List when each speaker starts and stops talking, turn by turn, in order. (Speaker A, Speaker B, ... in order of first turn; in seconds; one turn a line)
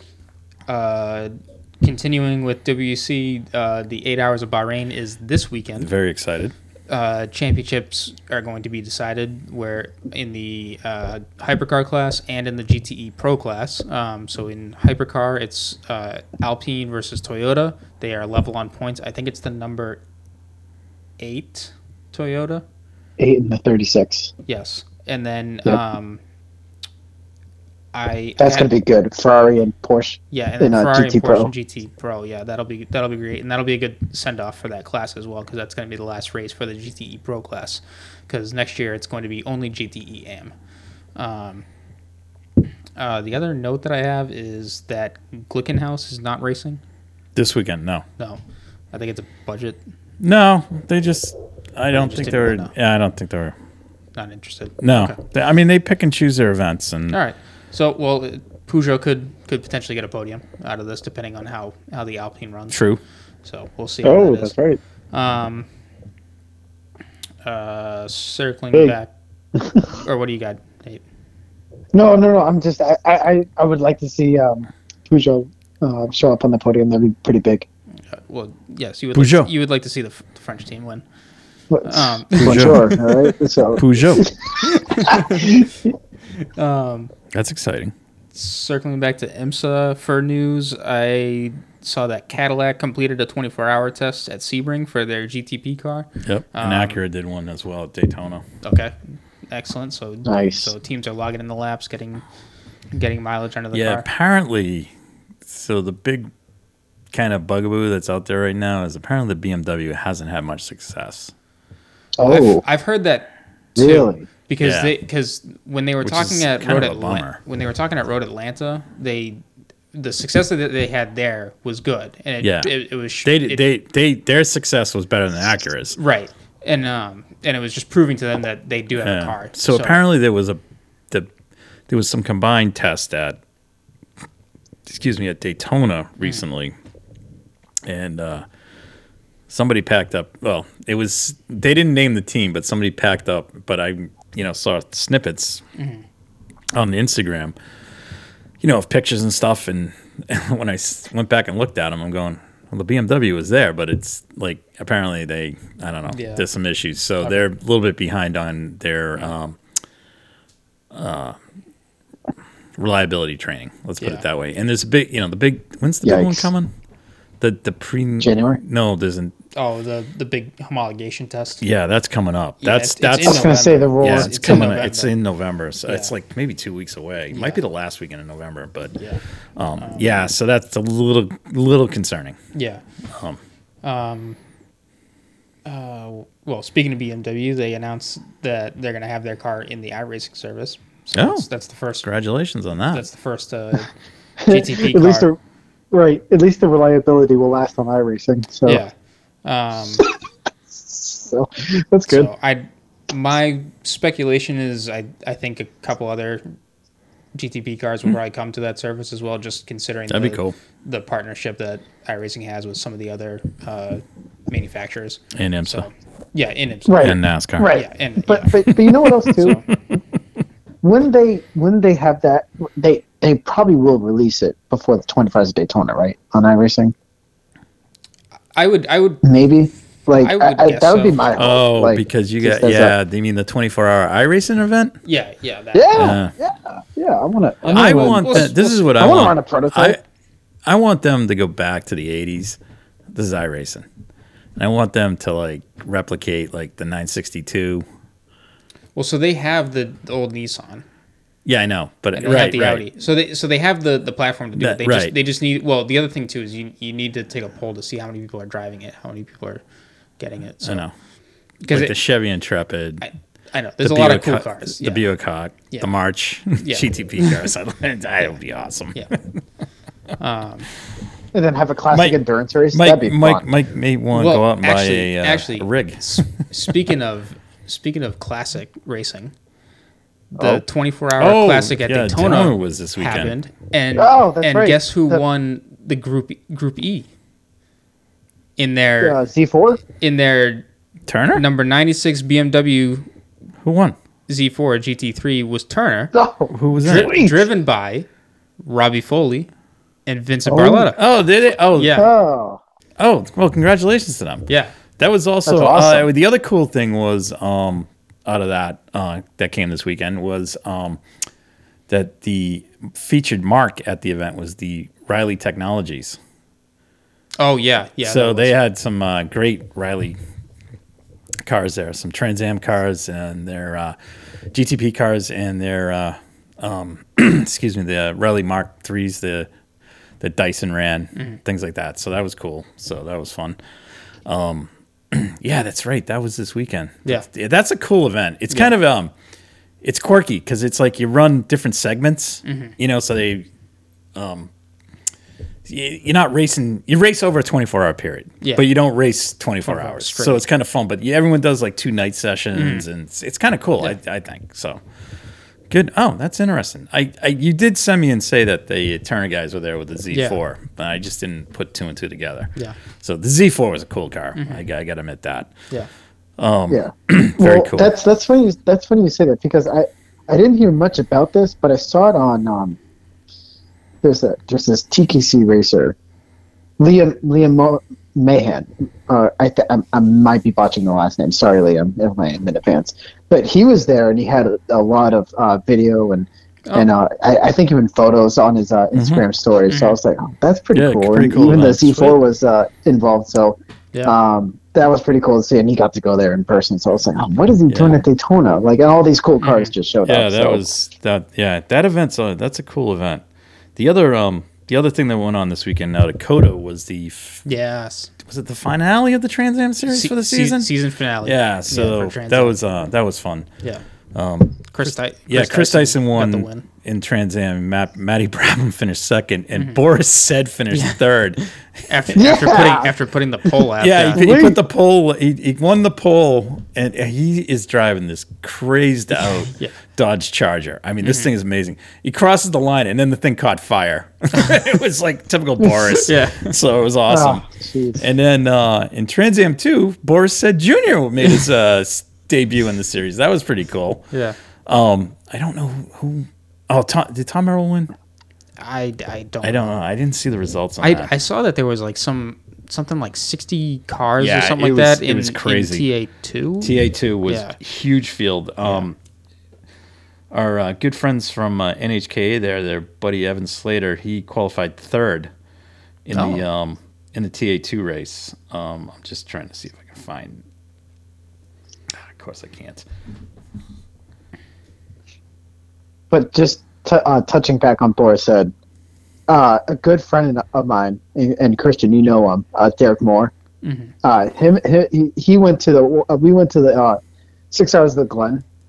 Speaker A: 0.7-5.9
Speaker B: 5.8-6.5
Speaker A: 6.9-20.0
Speaker A: 21.2-22.6
Speaker C: 23.2-24.3
Speaker A: 24.4-26.2
Speaker A: 27.9-28.7
Speaker C: 28.4-31.5
Speaker A: 30.3-40.5
Speaker A: 41.1-41.6
Speaker A: 43.0-46.8
Speaker B: 47.4-48.0
Speaker A: 48.9-49.8
Speaker B: 50.2-53.5
Speaker A: 51.9-52.7
Speaker A: 54.1-55.2
Speaker B: 54.8-57.2
Speaker A: 57.1-62.8
Speaker B: 62.7-63.0
Speaker A: 63.4-64.5
Speaker C: 64.0-64.8
Speaker A: 65.1-65.7
Speaker A: 67.4-69.1
Speaker C: 69.6-69.9
Speaker A: 69.9-71.0
Speaker C: 71.9-77.7
Speaker A: 78.1-81.0
Speaker B: 79.1-79.5
Speaker C: 81.7-85.7
Speaker A: 81.8-82.9
Speaker B: 82.4-83.1
Speaker B: 83.8-84.3
Speaker A: 84.6-85.7
Speaker A: 86.4-87.1
Speaker B: 87.3-87.9
Speaker A: 88.3-97.0
Speaker B: 96.2-98.4
Speaker A: 98.6-99.0
Speaker A: 99.5-102.2
Speaker C: 100.2-100.7
Speaker A: 102.9-104.0
Speaker B: 103.7-104.9
Speaker B: 105.5-106.3
Speaker B: 107.1-111.3
Speaker C: 112.2-112.6
Speaker A: 112.2-119.4
Speaker C: 113.8-114.2
Speaker B: 114.6-114.9
Speaker B: 116.0-117.4
Speaker A: 119.9-123.6
Speaker B: 122.4-122.7
Speaker B: 123.2-126.0
Speaker A: 126.0-130.0
Speaker B: 129.0-130.6
Speaker B: 131.9-133.4
Speaker B: 134.8-136.7
Speaker B: 137.8-138.4
Speaker B: 139.5-145.6
Speaker A: 145.8-146.0
Speaker B: 146.7-147.5
Speaker B: 148.6-159.6
Speaker A: 156.1-156.4
Speaker B: 160.9-161.3
Speaker B: 162.8-166.7
Speaker C: 166.0-166.5
Speaker B: 167.4-169.3
Speaker C: 168.2-168.6
Speaker A: 169.5-171.6
Speaker B: 171.6-178.9
Speaker A: 172.6-175.1
Speaker C: 173.2-174.6
Speaker A: 175.8-176.1
Speaker A: 177.3-177.6
Speaker B: 179.6-182.4
Speaker A: 179.8-180.3
Speaker A: 182.5-182.8
Speaker A: 183.8-184.4
Speaker A: 185.7-192.1
Speaker B: 191.1-191.4
Speaker B: 192.0-193.0
Speaker A: 192.9-193.9
Speaker C: 194.4-195.4
Speaker A: 194.4-195.3
Speaker C: 195.9-198.8
Speaker A: 198.7-198.9
Speaker A: 199.4-200.0
Speaker C: 200.7-202.3
Speaker A: 202.1-206.4
Speaker A: 207.3-217.2
Speaker B: 210.1-210.5
Speaker B: 215.3-215.8
Speaker C: 216.8-219.6
Speaker B: 217.0-217.7
Speaker A: 217.7-219.7
Speaker B: 218.9-219.5
Speaker C: 220.8-226.9
Speaker A: 228.5-229.2
Speaker C: 229.2-232.9
Speaker A: 230.2-231.2
Speaker B: 231.3-234.9
Speaker A: 235.0-236.2
Speaker C: 235.7-240.0
Speaker B: 235.9-236.3
Speaker B: 237.7-240.0
Speaker A: 237.7-238.7
Speaker B: 240.7-242.6
Speaker B: 243.1-243.8
Speaker B: 244.6-247.8
Speaker A: 248.9-250.8
Speaker B: 251.4-252.8
Speaker A: 252.1-259.6
Speaker B: 254.6-255.1
Speaker A: 260.2-260.8
Speaker B: 260.6-260.9
Speaker A: 261.6-261.9
Speaker B: 261.7-263.0
Speaker A: 263.0-265.0
Speaker B: 263.8-269.0
Speaker A: 266.6-267.4
Speaker A: 270.2-270.7
Speaker C: 271.3-273.4
Speaker B: 271.9-272.1
Speaker B: 272.7-276.0
Speaker A: 274.1-279.3
Speaker A: 280.4-287.1
Speaker C: 280.4-280.6
Speaker B: 281.2-283.3
Speaker C: 283.9-285.2
Speaker A: 288.6-289.2
Speaker C: 289.0-289.8
Speaker A: 290.0-290.6
Speaker B: 291.1-291.4
Speaker A: 291.3-293.1
Speaker B: 293.6-293.9
Speaker A: 294.3-296.1
Speaker C: 296.1-297.5
Speaker B: 296.5-297.2
Speaker A: 296.8-298.1
Speaker A: 298.6-299.5
Speaker A: 300.1-301.0
Speaker C: 300.4-300.9
Speaker B: 300.9-302.0
Speaker A: 301.7-302.1
Speaker C: 301.9-302.6
Speaker B: 303.0-304.4
Speaker A: 304.5-304.7
Speaker B: 305.0-311.0
Speaker C: 305.4-306.1
Speaker B: 311.9-316.2
Speaker A: 317.4-318.5
Speaker B: 318.0-320.2
Speaker B: 321.4-323.9
Speaker B: 324.5-329.5
Speaker B: 330.2-333.6
Speaker B: 334.2-339.1
Speaker B: 339.8-343.5
Speaker A: 342.4-342.7
Speaker B: 344.1-344.5
Speaker B: 345.6-354.8
Speaker A: 349.6-350.4
Speaker A: 352.5-352.8
Speaker B: 355.7-365.5
Speaker A: 360.1-360.4
Speaker A: 364.4-364.6
Speaker B: 366.4-367.9
Speaker C: 366.7-372.8
Speaker C: 374.0-375.9
Speaker C: 376.8-400.6
Speaker B: 388.9-389.2
Speaker A: 389.7-390.0
Speaker B: 390.7-392.2
Speaker B: 397.7-398.0
Speaker A: 399.4-399.7
Speaker B: 400.0-403.2
Speaker B: 403.8-407.4
Speaker A: 407.4-408.1
Speaker B: 408.2-410.7
Speaker A: 409.9-412.6
Speaker B: 411.2-413.5
Speaker B: 414.1-421.5
Speaker A: 414.7-416.7
Speaker A: 419.5-419.8
Speaker A: 421.9-424.3
Speaker C: 422.1-422.9
Speaker B: 423.8-437.4
Speaker C: 424.1-424.6
Speaker A: 431.0-431.3
Speaker A: 436.0-436.5
Speaker C: 437.1-438.1
Speaker B: 438.0-444.0
Speaker B: 444.7-447.9
Speaker A: 448.6-449.8
Speaker B: 449.4-451.1
Speaker A: 450.8-457.6
Speaker B: 454.2-455.9
Speaker B: 456.6-458.9
Speaker A: 458.6-458.9
Speaker B: 460.3-465.3
Speaker B: 466.1-470.4
Speaker A: 466.1-466.4
Speaker B: 472.0-472.8
Speaker C: 476.1-478.5
Speaker C: 479.3-483.3
Speaker A: 483.6-483.9
Speaker C: 484.0-487.0
Speaker C: 487.5-488.4